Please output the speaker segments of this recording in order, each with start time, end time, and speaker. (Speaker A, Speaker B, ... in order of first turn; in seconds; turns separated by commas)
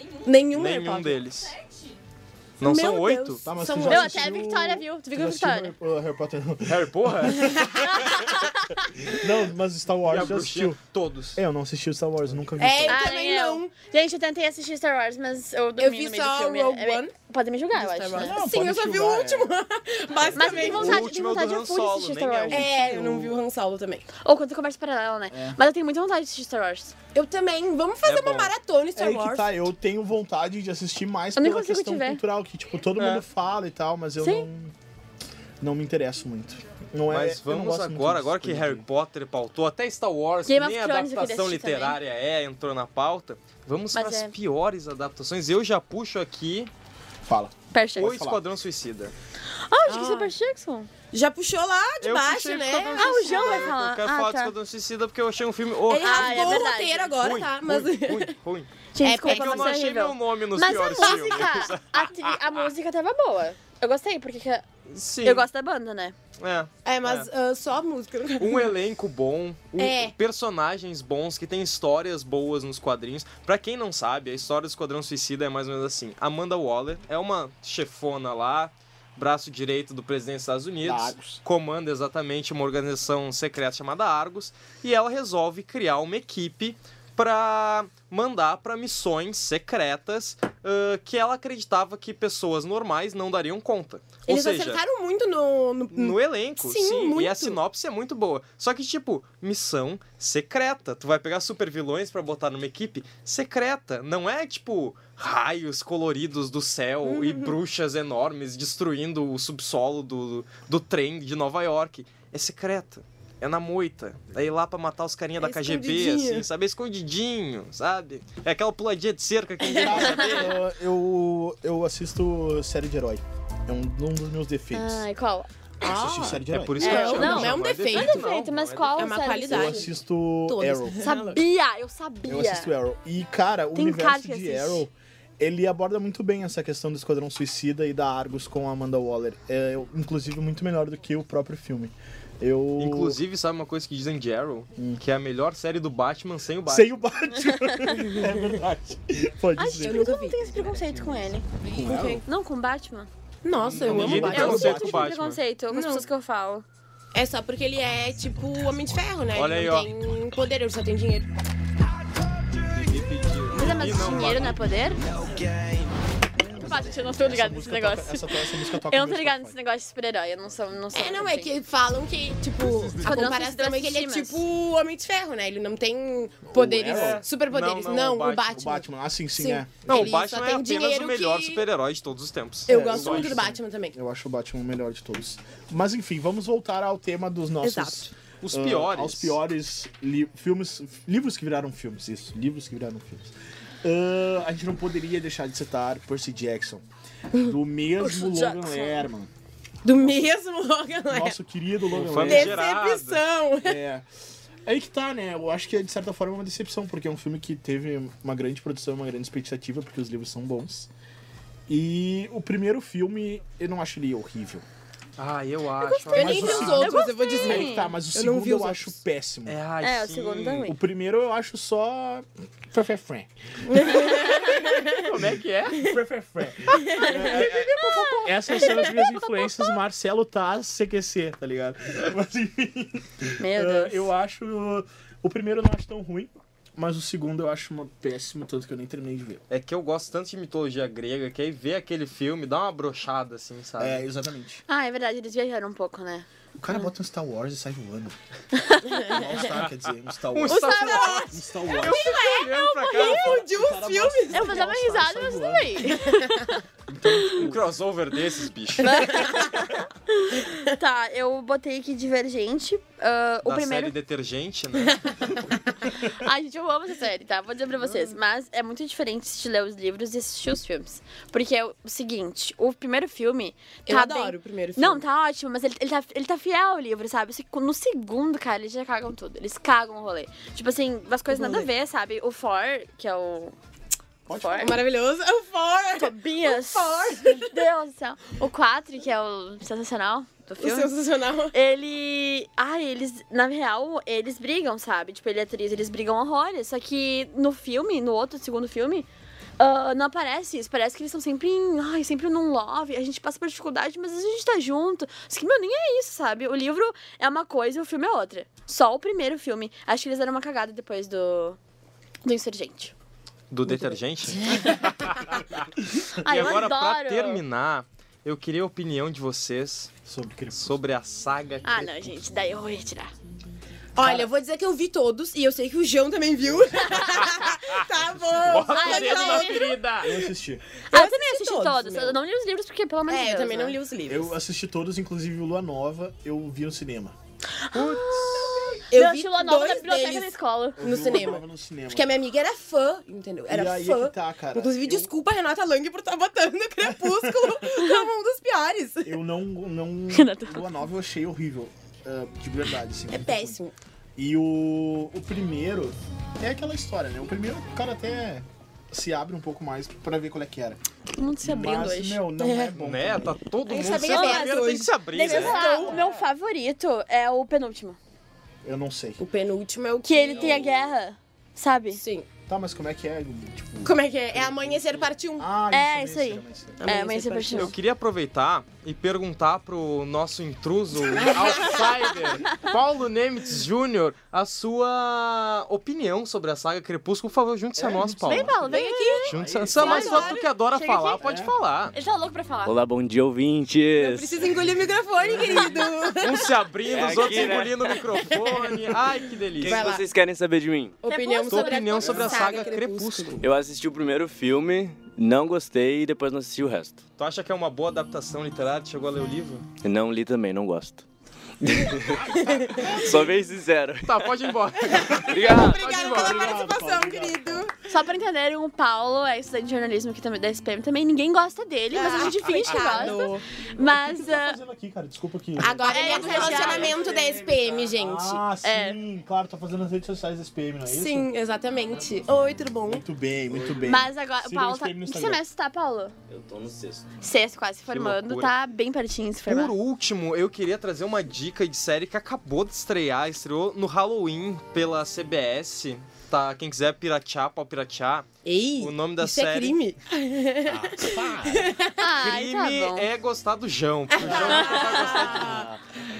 Speaker A: 0.2-1.2, Speaker B: 0.5-1.6, Speaker B: 2.6-3.4, Speaker A: 2.6-4.2, Speaker C: 3.5-7.7, Speaker D: 3.9-5.7, Speaker B: 6.7-7.6, Speaker A: 7.4-8.3, Speaker C: 9.0-10.8, Speaker B: 10.0-11.4, Speaker C: 11.3-13.0, Speaker A: 12.6-13.7, Speaker D: 12.8-18.4, Speaker A: 15.8-17.1, Speaker A: 17.7-21.0, Speaker C: 18.1-19.5, Speaker C: 20.1-21.0, Speaker D: 20.3-22.7, Speaker B: 20.6-23.4, Speaker A: 22.5-24.1, Speaker D: 24.2-26.9, Speaker C: 25.3-25.6, Speaker A: 27.1-29.5, Speaker B: 28.0-28.5, Speaker C: 28.9-34.7, Speaker D: 31.4-32.2, Speaker B: 33.0-33.2, Speaker D: 34.2-34.5, Speaker C: 35.6-38.9, Speaker B: 37.1-46.7, Speaker D: 40.5-42.0, Speaker D: 43.9-44.3, Speaker C: 47.2-48.4, Speaker D: 47.7-48.1, Speaker B: 48.0-49.1, Speaker D: 49.5-50.9, Speaker A: 49.9-50.3, Speaker A: 51.1-53.5, Speaker B: 52.0-56.7, Speaker D: 52.9-54.5, Speaker A: 55.9-58.3, Speaker D: 56.0-57.1, Speaker B: 57.2-58.7, Speaker D: 58.9-64.7, Speaker A: 59.0-59.7, Speaker B: 59.2-62.6, Speaker A: 60.9-61.3, Speaker B: 64.9-65.5, Speaker D: 65.2-66.1, Speaker B: 66.4-67.3, Speaker A: 66.8-68.7, Speaker B: 68.4-94.8, Speaker A: 69.8-70.1, Speaker C: 80.8-81.4, Speaker A: 94.3-97.6, Speaker B: 95.9-120.5, Speaker A: 107.0-107.5, Speaker A: 115.4-116.5, Speaker A: 119.6-120.2, Speaker C: 119.7-125.0, Speaker D: 124.7-125.5, Speaker C: 125.8-127.4, Speaker A: 125.8-128.2, Speaker B: 126.3-129.2, Speaker D: 126.8-129.9, Speaker A: 128.9-131.4, Speaker C: 129.4-131.1, Speaker D: 131.0-132.7, Speaker C: 132.3-143.2, Speaker D: 133.7-134.8, Speaker B: 142.8-147.0, Speaker C: 144.8-145.0, Speaker C: 146.7-150.0, Speaker D: 147.8-148.1, Speaker D: 149.6-151.5, Speaker A: 149.7-152.2, Speaker C: 151.7-152.2, Speaker D: 152.2-153.1, Speaker A: 153.4-154.8, Speaker B: 153.6-155.4, Speaker C: 153.7-155.1, Speaker D: 154.0-156.6, Speaker A: 155.7-156.1, Speaker A: 157.1-161.3, Speaker B: 159.3-159.9, Speaker B: 162.7-164.7, Speaker D: 163.5-165.0, Speaker C: 166.4-169.6, Speaker D: 166.5-171.5, Speaker A: 170.9-178.8, Speaker C: 172.6-172.9, Speaker D: 173.0-174.4, Speaker C: 176.5-177.2, Speaker B: 176.8-178.6, Speaker C: 178.5-180.1, Speaker A: 179.3-181.6, Speaker B: 179.8-183.4, Speaker A: 182.7-183.9, Speaker C: 182.7-196.8, Speaker A: 187.6-188.1, Speaker B: 188.4-189.4, Speaker C: 197.4-199.3, Speaker D: 198.0-199.0, Speaker A: 199.8-201.4, Speaker C: 200.0-200.3, Speaker C: 201.1-202.6, Speaker B: 201.9-203.2, Speaker A: 202.2-203.8, Speaker C: 203.6-204.1, Speaker C: 204.6-210.9, Speaker C: 211.7-214.6, Speaker B: 215.2-217.0, Speaker D: 215.9-217.9, Speaker A: 216.1-218.9, Speaker C: 216.1-219.6, Speaker B: 219.4-220.7, Speaker D: 219.8-220.8, Speaker C: 220.6-223.6, Speaker A: 223.7-224.9, Speaker D: 223.8-224.6, Speaker B: 224.9-225.9, Speaker C: 225.8-239.4, Speaker D: 227.1-227.8, Speaker D: 228.5-229.2, Speaker D: 233.4-234.1, Speaker B: 239.5-244.0, Speaker C: 243.8-244.6, Speaker D: 244.7-246.9, Speaker C: 246.6-248.2, Speaker D: 248.6-249.2, Speaker C: 249.0-252.2, Speaker B: 250.3-253.4, Speaker D: 250.5-251.2, Speaker A: 250.5-254.6, Speaker C: 252.9-256.0, Speaker D: 254.3-257.3, Speaker A: 255.9-256.2, Speaker C: 256.9-257.6, Speaker B: 257.3-259.3, Speaker D: 258.8-263.9, Speaker A: 259.0-259.6, Speaker B: 263.4-265.4, Speaker D: 266.0-283.5, Speaker A: 273.9-275.0, Speaker A: 281.3-281.7, Speaker C: 284.2-284.8, Speaker D: 284.3-284.8, Speaker A: 284.6-287.6, Speaker D: 285.9-290.9, Speaker A: 290.6-291.5, Speaker D: 291.5-299.1, Speaker D: 299.6-311.6, Speaker D: 312.2-312.9, Speaker B: 313.5-315.6, Speaker C: 316.0-316.5, Speaker D: 316.2-317.4, Speaker B: 316.2-319.9, Speaker C: 320.1-320.8, Speaker B: 320.5-322.0, Speaker D: 321.6-323.1, Speaker A: 323.9-329.8, Speaker C: 324.0-324.3, Speaker C: 328.2-328.7, Speaker B: 328.4-330.1, Speaker D: 328.7-329.8, Speaker C: 330.0-330.6, Speaker A: 330.9-332.2, Speaker D: 330.9-333.8, Speaker A: 333.1-334.3, Speaker C: 334.1-337.1, Speaker D: 337.6-340.8, Speaker B: 337.7-338.5, Speaker A: 338.9-349.2, Speaker C: 340.8-342.1, Speaker C: 343.5-345.1, Speaker C: 346.8-347.6, Speaker C: 349.0-353.6, Speaker D: 350.1-350.6, Speaker A: 353.1-353.7, Speaker C: 354.2-360.8, Speaker D: 361.2-362.2, Speaker C: 361.4-363.4, Speaker A: 362.4-362.7, Speaker B: 362.8-365.6, Speaker A: 363.6-366.2, Speaker D: 363.9-368.0, Speaker C: 368.6-369.2, Speaker A: 369.2-370.7, Speaker D: 370.0-372.0, Speaker C: 370.3-370.7, Speaker A: 371.9-372.3, Speaker C: 372.5-376.9, Speaker A: 373.8-375.4, Speaker D: 375.7-377.8, Speaker A: 376.8-377.7, Speaker B: 377.5-388.6, Speaker A: 381.1-381.8, Speaker C: 387.8-390.1, Speaker D: 388.2-391.2, Speaker A: 388.6-390.4, Speaker B: 389.3-391.9, Speaker C: 391.2-391.5, Speaker D: 391.9-392.8, Speaker E: 392.6-394.7, Speaker A: 393.9-396.5, Speaker B: 396.2-399.9, Speaker E: 396.9-398.0, Speaker A: 397.9-398.5, Speaker E: 399.6-401.0, Speaker A: 399.6-400.1, Speaker A: 401.0-403.4, Speaker D: 401.1-402.8, Speaker B: 401.5-403.4, Speaker E: 403.4-407.0, Speaker B: 407.2-409.6, Speaker E: 409.8-411.0, Speaker E: 411.6-412.3, Speaker A: 412.2-413.2, Speaker E: 412.9-414.3, Speaker B: 414.0-416.6, Speaker A: 414.8-417.7, Speaker E: 415.3-415.9, Speaker C: 415.9-417.7, Speaker D: 417.9-424.6, Speaker A: 421.9-423.4, Speaker C: 422.8-423.2, Speaker C: 423.8-426.9, Speaker A: 425.6-428.4, Speaker D: 425.9-427.1, Speaker E: 426.1-428.0, Speaker C: 428.0-431.3, Speaker D: 428.6-429.0, Speaker A: 430.9-433.0, Speaker C: 432.9-435.4, Speaker E: 433.5-434.1, Speaker D: 433.8-436.1, Speaker E: 436.3-437.2, Speaker D: 437.2-439.7, Speaker B: 437.9-438.5, Speaker B: 439.5-448.3, Speaker A: 448.4-452.0, Speaker B: 448.8-449.8, Speaker C: 450.6-451.7, Speaker D: 452.0-453.1, Speaker B: 452.2-455.7, Speaker A: 454.1-455.7, Speaker C: 454.2-455.8